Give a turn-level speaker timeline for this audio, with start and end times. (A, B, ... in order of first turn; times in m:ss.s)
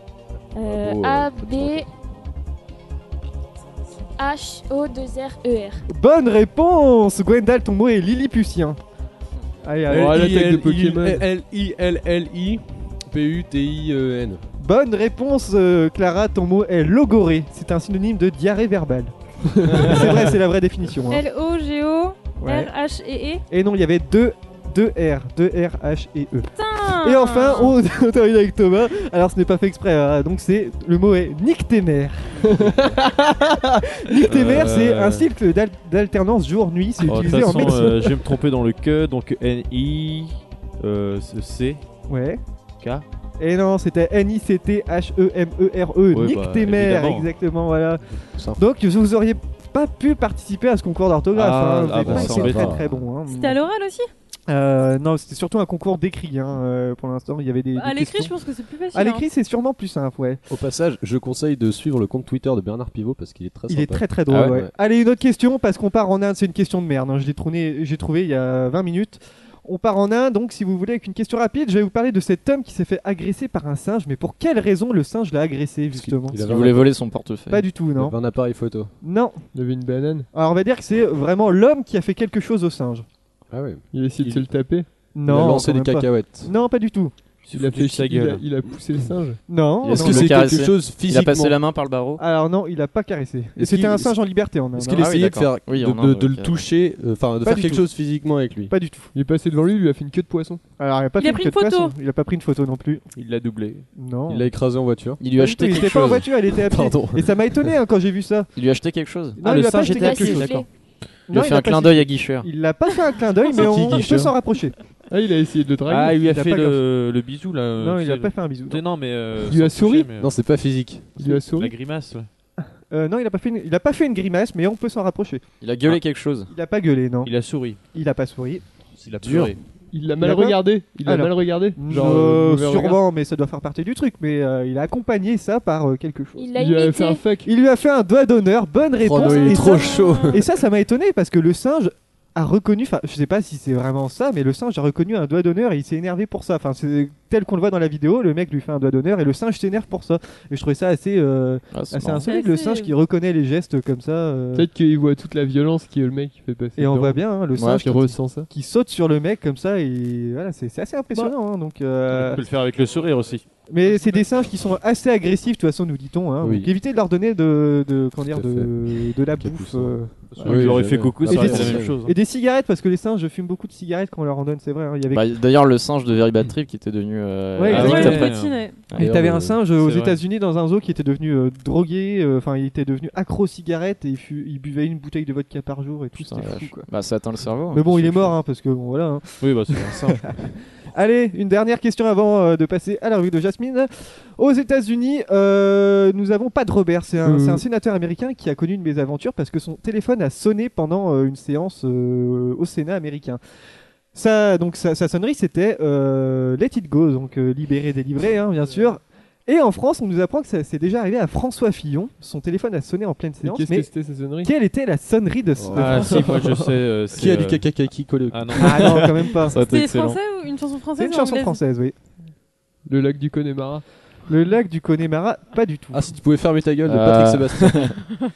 0:00.5-0:01.9 A
0:00.6-0:01.9 B
0:04.2-0:05.8 A
0:05.9-0:08.8 C
0:09.6-0:10.2 C
0:09.9-0:14.4 B
0:09.9-0:11.2 D
0:14.6-0:19.1 C
0:19.7-0:21.2 C
0:21.1-0:23.4 E
0:22.4-0:22.7 C
0:23.5-0:32.4 C
0:26.5-0:27.8 E
0:32.5-0:34.3 D
0:34.0-0:38.2 C
0:34.3-0:35.2 F
0:37.0-0:41.8 F
0:37.5-0:38.0 D
0:42.1-0:42.4 C
0:42.8-0:43.0 F
0:43.4-0:48.0 C
0:46.1-0:47.3 F
0:48.3-0:48.6 B
0:48.6-0:53.6 C
0:51.3-0:52.8 F
0:52.0-0:52.9 B
0:53.2-0:54.1 E
0:54.5-0:58.4 C
0:57.7-0:59.2 E
0:58.9-1:00.4 C
1:00.5-1:04.7 B
1:03.7-1:16.4 C
1:04.3-1:04.5 G
1:15.9-1:16.9 B
1:16.3-1:17.6 G
1:17.5-1:18.2 C
1:18.0-1:18.9 B
1:19.0-1:19.4 C
1:19.5-1:20.3 D
1:20.3-1:23.0 C
1:23.5-1:23.8 B
1:23.9-1:24.9 D
1:24.2-1:24.5 F
1:25.1-1:27.1 C
1:25.2-1:26.5 B
1:27.4-1:28.4 F
1:27.5-1:29.4 D
1:29.5-1:30.4 C
1:29.8-1:32.2 G
1:29.8-1:31.6 B
1:32.2-1:35.1 C
1:33.6-1:34.2 B
1:34.7-1:38.7 B
1:34.9-1:36.6 G
1:37.4-1:37.9 C
1:38.7-1:39.1 C
1:39.1-1:40.6 D
1:40.8-1:43.0 C
1:41.2-1:42.0 E
1:43.1-1:43.9 F
1:43.9-1:44.5 C
1:44.3-1:45.2 B
1:45.2-1:46.4 G
1:45.4-1:48.5 C
1:46.6-1:47.7 B
1:48.6-1:50.6 G
1:49.4-1:50.6 C
1:49.9-1:50.7 A
1:51.3-1:54.7 C
1:51.3-1:52.5 G
1:53.4-1:53.9 E
1:53.6-1:54.3 B
1:55.1-1:56.2 D
1:55.9-2:00.3 F
1:56.2-1:56.8 C
1:57.8-1:58.8 C
1:59.4-2:00.1 D
2:00.2-2:01.2 B
2:01.2-2:01.8 D
2:01.5-2:02.3 F
2:02.6-2:05.4 C
2:05.6-2:06.5 G
2:06.5-2:07.3 C
2:07.2-2:07.8 F
2:07.9-2:08.6 C
2:09.0-2:09.6 F
2:09.2-2:09.5 B
2:09.9-2:13.0 D
2:10.2-2:16.5 C
2:16.4-2:17.2 A
2:16.5-2:17.5 D
2:17.4-2:34.7 C
2:19.0-2:20.4 B
2:19.2-2:20.4 E
2:31.7-2:32.3 G
2:32.2-2:32.9 E
2:34.5-2:37.2 D
2:36.8-2:42.4 C
2:37.6-2:37.8 G
2:37.8-2:38.5 D
2:42.1-2:43.4 F
2:43.7-2:55.2 C
2:46.4-2:46.7 B
2:48.3-2:52.0 B
2:50.3-2:52.1 F
2:55.1-2:58.4 G
2:57.6-2:58.3 C
2:57.7-2:58.6 F
2:57.7-2:58.8 E
2:58.9-3:06.9 C
2:59.0-2:59.6 B
2:59.7-3:00.2 F
3:06.2-3:08.4 G
3:07.7-3:23.4 C
3:09.4-3:10.3 F
3:17.2-3:17.6 D
3:24.1-3:36.6 C
3:33.4-3:34.5 D
3:35.6-3:36.1 B
3:35.7-3:37.7 F
3:35.8-3:36.6 D
3:37.1-3:38.8 B
3:38.3-3:39.1 F
3:38.6-3:39.6 C
3:38.8-3:40.2 G
3:39.6-3:41.6 E
3:41.0-3:42.0 C
3:42.8-3:43.8 D
3:44.3-3:46.1 C
3:45.9-3:48.0 B
3:46.8-3:47.9 G